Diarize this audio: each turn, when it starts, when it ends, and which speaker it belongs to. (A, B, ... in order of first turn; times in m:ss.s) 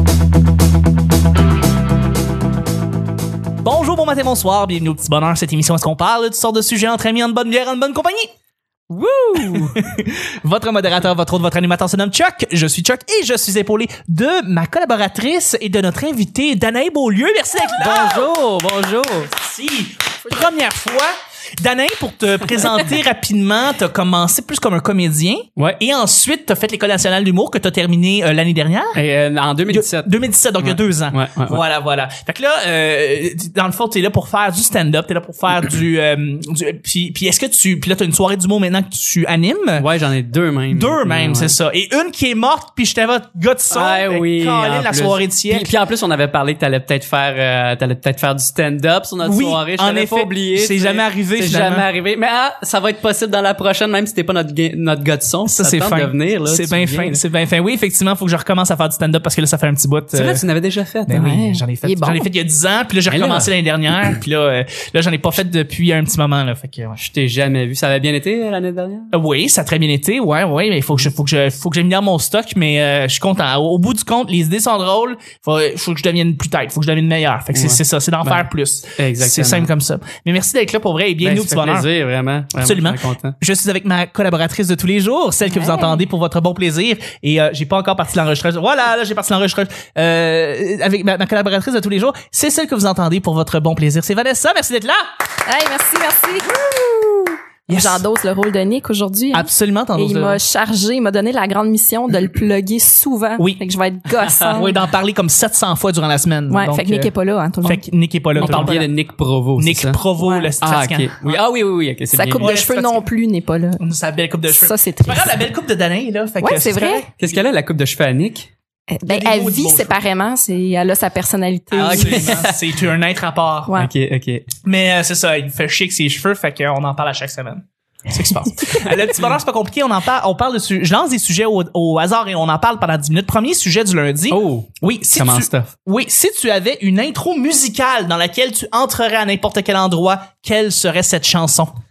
0:03.6-0:08.3 A
0:08.9-0:09.8 B
0:09.4-0:18.3 A
0:17.7-0:19.3 B
0:19.3-0:29.0 A
0:28.9-0:31.6 B
0:29.7-0:39.8 A
0:39.8-0:41.6 B
0:40.7-0:45.7 A
0:43.7-0:57.2 B
0:49.2-0:51.8 A
0:55.5-1:00.4 A
1:00.1-1:01.2 B
1:01.1-1:07.0 A
1:01.1-1:02.3 C
1:03.1-1:03.5 B
1:07.0-1:09.1 B
1:09.1-1:21.9 A
1:17.5-1:19.7 B
1:21.2-1:23.4 B
1:22.6-1:35.0 A
1:25.5-1:26.0 C
1:35.4-1:44.8 C
1:37.7-1:38.0 A
1:39.3-1:40.4 A
1:44.5-1:47.1 A
1:46.5-1:47.8 C
1:47.6-1:48.8 A
1:48.3-1:48.8 C
1:48.4-1:50.0 B
1:49.6-1:51.4 A
1:50.2-1:50.5 C
1:50.6-1:52.5 B
1:52.1-1:53.8 C
1:52.4-1:53.0 A
1:53.8-1:57.1 A
1:54.5-1:55.4 C
1:56.4-1:57.1 C
1:57.2-1:58.5 B
1:58.9-2:02.4 C
1:59.0-2:00.0 A
2:01.7-2:03.7 A
2:01.8-2:02.6 B
2:03.7-2:04.5 B
2:04.6-2:21.7 A
2:14.3-2:15.7 B